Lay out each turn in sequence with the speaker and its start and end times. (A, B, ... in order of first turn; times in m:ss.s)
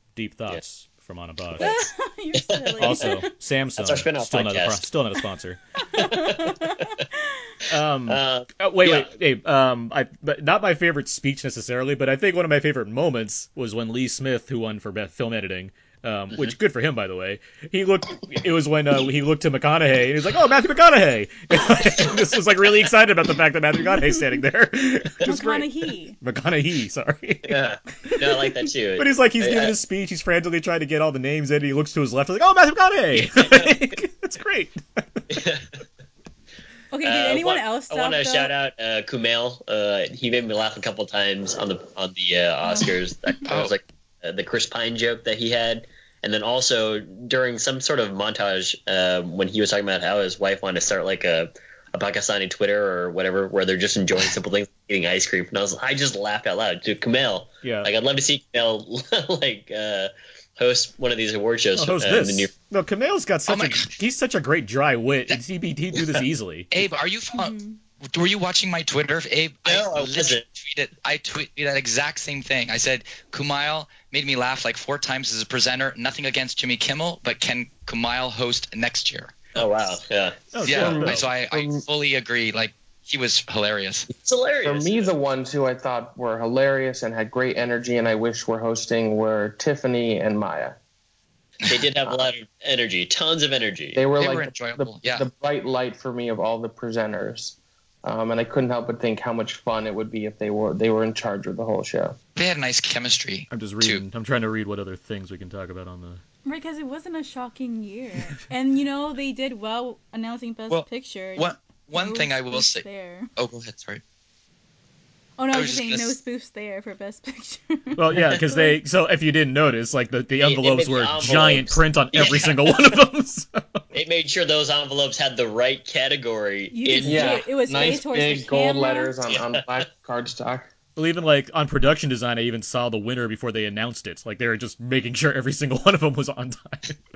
0:00.1-0:01.7 A
0:01.6-0:01.9 B
0:01.6-0:03.3 C
0:02.5-0:03.1 B
0:02.8-0:05.6 A
0:03.8-0:04.9 B
0:05.8-0:07.1 C
0:05.9-0:06.5 B
0:07.7-0:25.7 A
0:08.1-0:09.1 B
0:24.0-0:24.4 C
0:25.2-0:26.2 C
0:26.2-0:27.7 A
0:27.5-0:29.7 B
0:29.0-0:35.4 A
0:33.1-0:33.7 B
0:35.3-0:35.7 B
0:36.9-0:38.5 C
0:37.0-1:02.5 B
0:42.6-0:42.9 C
0:43.5-0:43.7 D
0:57.6-0:57.9 A
1:01.7-1:06.7 A
1:03.5-1:04.0 D
1:05.9-1:06.2 B
1:06.7-1:07.6 D
1:07.3-1:07.8 C
1:08.1-1:19.5 D
1:09.6-1:10.4 B
1:19.5-1:20.5 B
1:20.5-1:21.3 A
1:20.6-1:24.1 D
1:20.6-1:21.8 E
1:24.2-1:25.1 B
1:24.6-1:30.8 E
1:31.6-1:34.0 B
1:33.9-1:42.2 E
1:34.2-1:35.3 D
1:42.4-1:44.0 D
1:43.5-1:46.2 A
1:46.4-1:53.3 C
1:50.7-1:52.8 D
1:53.4-1:54.0 D
1:55.4-1:58.8 C
1:55.5-1:56.1 D
1:58.0-2:03.8 A
2:00.4-2:03.0 B
2:03.9-2:07.4 B
2:06.7-2:09.1 C
2:07.0-2:10.7 E
2:09.3-2:09.6 B
2:11.0-2:17.0 A